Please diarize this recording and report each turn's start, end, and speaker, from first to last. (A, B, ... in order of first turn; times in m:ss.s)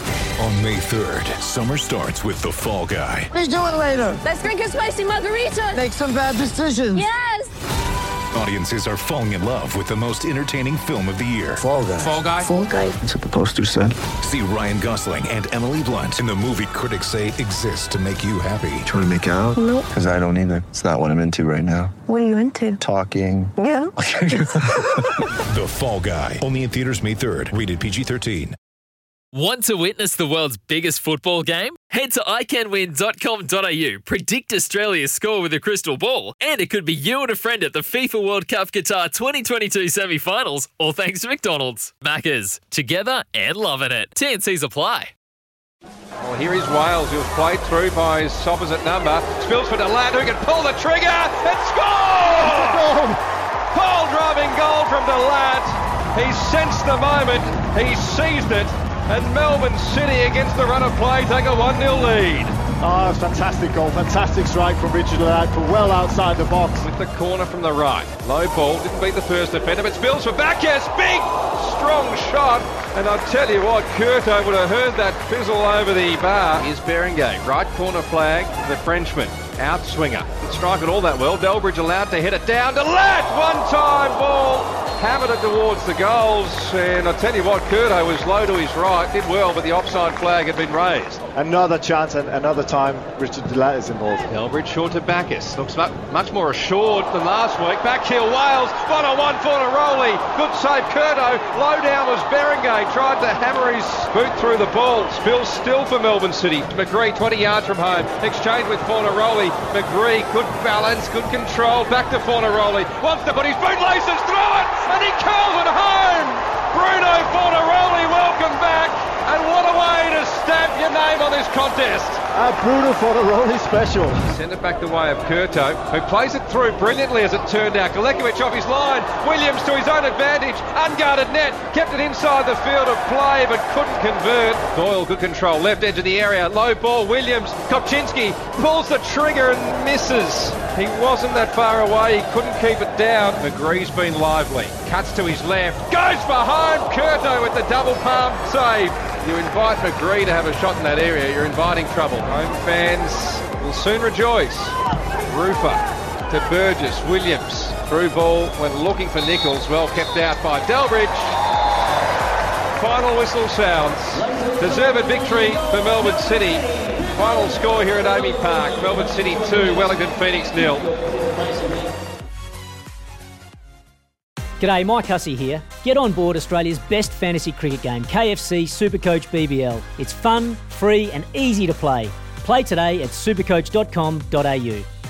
0:00.4-0:03.3 A
0:03.3-0:04.2 B
0:04.2-0:05.9 C
0:05.8-0:07.0 B
0:06.9-0:07.5 C
0:08.3-0:11.6 A
0:11.6-0:12.2 D
0:12.0-0:12.5 E
0:12.4-0:13.0 F
0:13.0-0:14.0 D
0:14.2-0:18.9 A
0:18.8-0:21.9 D
0:19.5-0:19.9 F
0:22.1-0:22.8 F
0:22.8-0:24.9 D
0:23.6-0:23.9 F
0:25.5-0:28.6 A
0:29.3-0:45.1 G
0:46.2-0:52.9 E
0:52.3-0:53.2 H
0:53.7-1:02.5 E
1:02.8-1:06.9 H
1:06.8-1:31.2 E
1:31.4-1:34.3 H
1:34.3-2:02.2 E
2:02.3-2:04.2 H
2:04.3-2:34.8 E
2:35.3-2:41.4 E
2:42.8-2:50.9 E
2:54.6-3:04.8 I